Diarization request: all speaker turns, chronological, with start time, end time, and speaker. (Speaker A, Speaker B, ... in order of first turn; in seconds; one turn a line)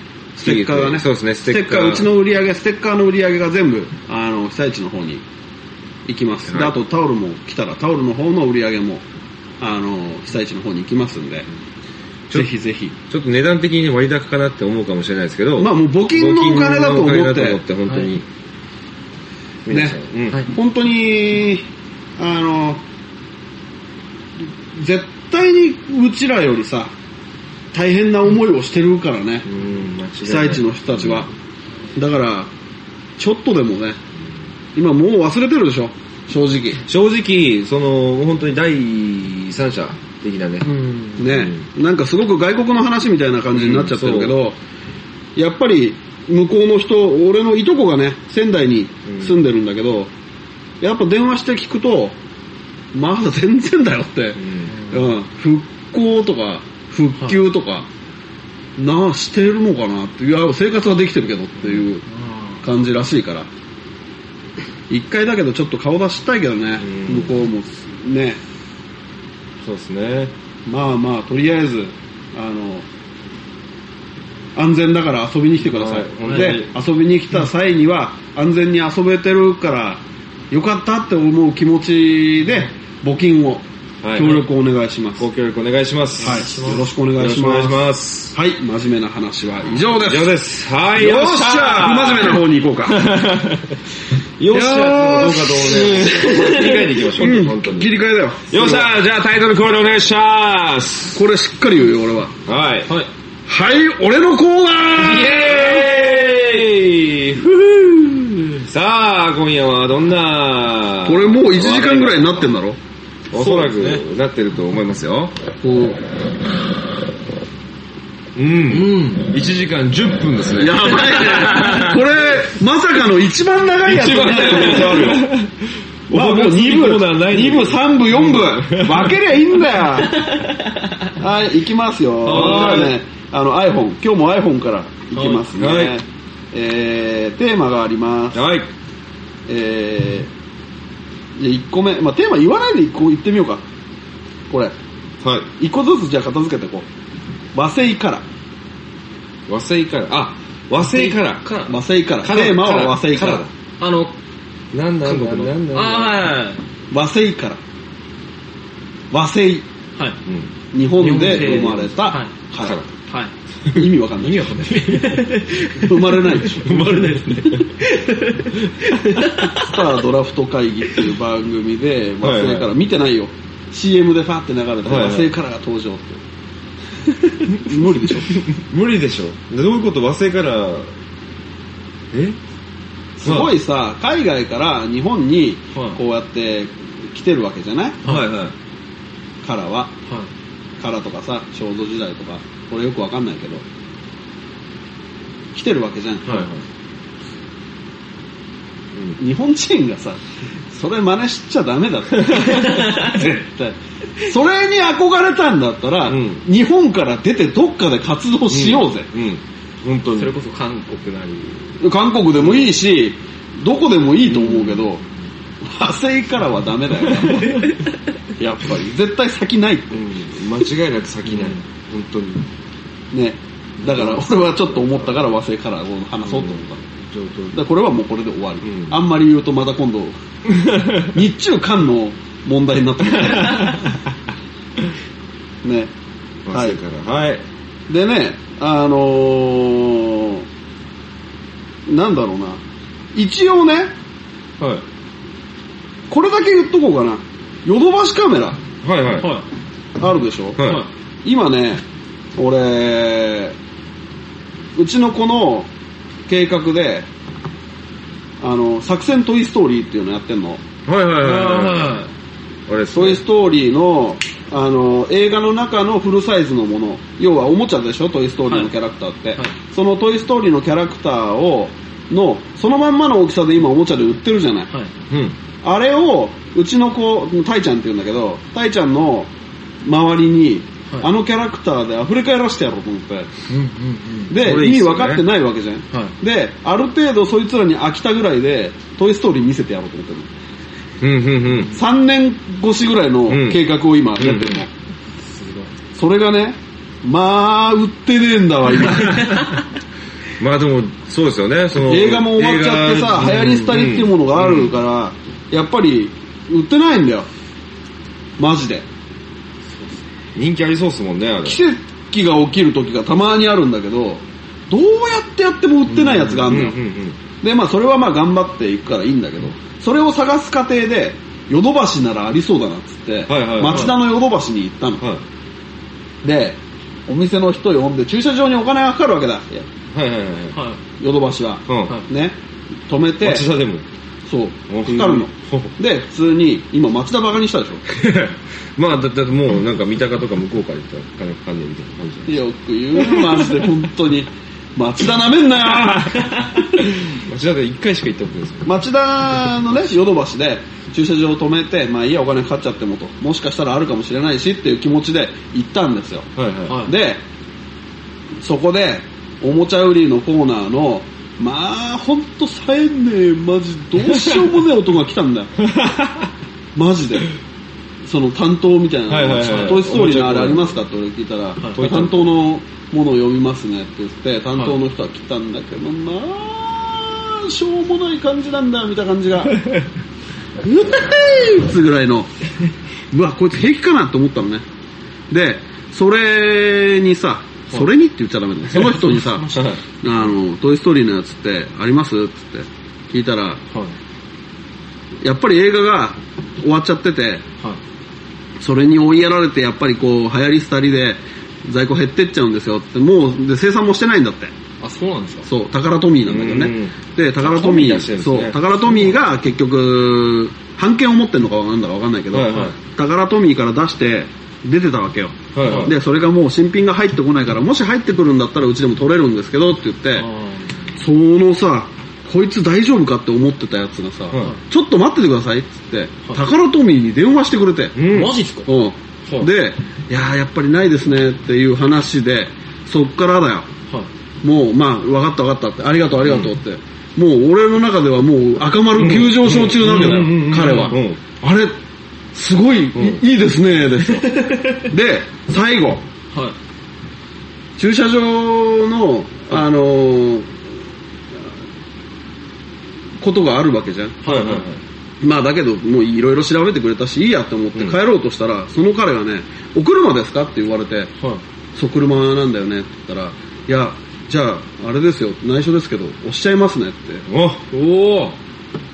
Speaker A: 0.4-5.2
Speaker B: 0.4-2.1
Speaker A: 6.1-9.0
Speaker B: 6.5-6.7
Speaker A: 9.6-11.5
Speaker A: 12.3-12.9
Speaker B: 13.1-18.3
Speaker A: 15.6-17.6
Speaker B: 19.7-20.4
Speaker A: 19.7-20.0
Speaker A: 20.5-21.6
Speaker A: 22.2-22.8
Speaker A: 24.7-26.9
Speaker A: 27.7-29.5
Speaker B: 29.5-31.3
Speaker A: 30.2-31.3
Speaker A: 32.0-32.5
Speaker A: 33.2-34.0
Speaker A: 34.8-36.8
Speaker B: 36.9-41.6
Speaker C: 40.7-41.1
Speaker A: 41.2-44.6
Speaker B: 43.5-44.4
Speaker A: 45.4-50.1
Speaker B: 49.1-49.4
Speaker A: 50.8-52.2
Speaker A: 52.9-57.9
Speaker B: 54.4-54.7
Speaker C: 54.7-55.1
Speaker A: 58.8-62.0
Speaker C: 62.2-62.6
Speaker A: 62.6-63.5
Speaker A: 64.9-68.4
Speaker B: 66.8-67.3
Speaker B: 69.6-70.3
Speaker A: 70.7-72.9
Speaker A: 74.6-85.2
Speaker B: 75.6-76.7
Speaker C: 76.2-76.6
Speaker B: 84.0-84.4
Speaker B: 85.2-86.6
Speaker A: 86.2-87.8
Speaker C: 86.2-86.9
Speaker B: 87.2-88.3
Speaker A: 88.3-90.3
Speaker B: 90.0-93.8
Speaker A: 91.0-93.0
Speaker B: 94.4-97.9
Speaker A: 94.5-96.6
Speaker C: 96.1-96.8
Speaker A: 97.2-98.9
Speaker B: 98.5-101.2
Speaker A: 101.2-102.3
Speaker B: 102.5-102.9
Speaker A: 103.5-105.4
Speaker B: 105.0-112.5
Speaker C: 105.3-106.4
Speaker A: 111.0-112.8
Speaker B: 113.3-115.3
Speaker C: 113.3-114.0
Speaker A: 115.6-116.0
Speaker B: 118.3-122.1
Speaker C: 118.7-119.2
Speaker A: 120.6-125.3
Speaker B: 123.8-129.2
Speaker A: 126.1-130.2
Speaker C: 130.1-130.8
Speaker A: 131.2-138.4
Speaker C: 132.3-132.9
Speaker B: 132.3-132.9
Speaker C: 135.1-135.4
Speaker B: 135.6-135.9
Speaker B: 138.3-138.7
Speaker A: 139.5-140.3
Speaker A: 141.4-143.6
Speaker B: 145.2-145.5
Speaker A: 145.6-146.9
Speaker A: 147.6-148.2
Speaker B: 149.5-151.6
Speaker C: 150.8-151.7
Speaker A: 151.7-153.5
Speaker B: 152.2-153.5
Speaker C: 153.8-154.1
Speaker B: 154.7-156.2
Speaker C: 155.0-156.6
Speaker A: 156.9-157.6
Speaker A: 159.1-159.7
Speaker B: 160.3-160.5
Speaker A: 160.7-162.8
Speaker C: 161.0-162.3
Speaker B: 161.2-161.9
Speaker B: 162.6-162.9
Speaker A: 163.7-164.8
Speaker C: 164.2-169.8
Speaker A: 165.7-166.9
Speaker B: 166.6-167.7
Speaker A: 169.4-176.2
Speaker B: 172.2-172.7
Speaker B: 174.8-175.3
Speaker A: 177.5-178.4
Speaker B: 178.3-180.9
Speaker B: 182.1-182.4
Speaker A: 183.2-188.0
Speaker B: 183.2-183.5
Speaker B: 188.0-188.6
Speaker A: 189.4-189.9
Speaker A: 190.8-193.6
Speaker A: 195.6-196.5
Speaker B: 196.3-196.6
Speaker A: 199.2-209.1
Speaker B: 206.1-206.4
Speaker B: 208.5-210.3
Speaker C: 210.1-211.8
Speaker A: 211.8-215.0
Speaker B: 214.3-214.9
Speaker A: 215.6-217.7
Speaker A: 218.4-220.0
Speaker B: 219.9-222.5
Speaker A: 223.1-226.8
Speaker B: 223.8-225.1
Speaker B: 226.2-227.6
Speaker A: 227.5-230.2
Speaker B: 228.6-229.0
Speaker B: 230.5-231.1
Speaker A: 231.0-233.8
Speaker B: 233.3-233.9
Speaker A: 235.6-235.9
Speaker B: 236.5-237.4
Speaker A: 236.5-236.8
Speaker A: 237.9-240.4
Speaker A: 241.9-242.6
Speaker A: 243.2-243.9
Speaker B: 244.6-244.8
Speaker A: 246.1-248.6
Speaker B: 248.8-249.3
Speaker C: 249.2-249.5
Speaker A: 250.0-250.6
Speaker B: 250.6-250.8
Speaker C: 250.6-250.9
Speaker A: 251.2-251.8
Speaker A: 252.4-253.6
Speaker A: 254.8-255.7
Speaker A: 256.3-257.1
Speaker A: 258.4-260.6
Speaker B: 260.9-262.0
Speaker C: 261.2-262.1
Speaker B: 262.7-263.2
Speaker A: 262.9-274.7
Speaker B: 275.1-275.4
Speaker A: 275.6-279.3
Speaker A: 279.8-283.3
Speaker C: 283.5-284.3
Speaker A: 284.3-290.3
Speaker B: 284.3-285.2
Speaker B: 291.0-291.7
Speaker A: 291.7-294.7
Speaker B: 293.3-293.6
Speaker B: 294.2-294.6
Speaker C: 295.2-295.7
Speaker A: 296.0-299.4
Speaker B: 300.4-304.8
Speaker A: 301.8-307.3
Speaker A: 308.4-308.9
Speaker C: 309.7-310.0
Speaker B: 310.4-311.6
Speaker A: 311.4-316.8
Speaker C: 315.9-316.5
Speaker B: 316.5-317.2
Speaker A: 317.4-325.0
Speaker B: 323.3-324.0
Speaker A: 326.2-329.7
Speaker B: 329.9-330.6
Speaker C: 330.6-330.8
Speaker A: 331.0-332.4
Speaker B: 331.7-332.0
Speaker A: 332.9-333.5
Speaker B: 333.2-333.9
Speaker A: 334.3-337.8
Speaker B: 334.7-335.7
Speaker B: 337.9-342.4
Speaker A: 342.3-346.3
Speaker B: 343.0-343.5
Speaker B: 346.8-348.7
Speaker A: 348.6-356.3
Speaker B: 356.4-356.8
Speaker C: 356.7-356.9
Speaker A: 356.8-357.2
Speaker A: 358.4-365.6
Speaker B: 364.1-364.5
Speaker B: 365.6-366.3
Speaker A: 366.8-367.3
Speaker A: 368.1-379.6
Speaker B: 369.1-370.8
Speaker C: 369.4-369.8
Speaker B: 371.7-372.3
Speaker A: 380.6-382.3
Speaker A: 383.1-384.6
Speaker A: 385.3-389.5
Speaker C: 388.7-389.8
Speaker A: 390.0-393.6
Speaker A: 395.2-397.4
Speaker A: 398.6-404.5
Speaker C: 404.8-405.5
Speaker A: 405.5-420.3
Speaker B: 406.3-409.2
Speaker B: 412.3-412.8
Speaker C: 412.5-412.7
Speaker B: 415.5-415.9
Speaker C: 415.6-415.9
Speaker C: 420.2-420.7
Speaker A: 421.0-428.0
Speaker B: 427.9-428.4
Speaker C: 428.1-428.7
Speaker A: 428.7-433.7
Speaker A: 434.4-441.8
Speaker B: 436.3-436.5
Speaker B: 439.0-441.2
Speaker C: 439.7-441.0
Speaker A: 442.3-446.1
Speaker B: 442.9-443.2
Speaker C: 444.2-444.7
Speaker A: 447.8-450.5
Speaker A: 453.2-454.2
Speaker C: 454.2-454.7
Speaker B: 454.2-454.8
Speaker A: 455.2-461.1
Speaker A: 461.8-468.3
Speaker B: 467.3-467.7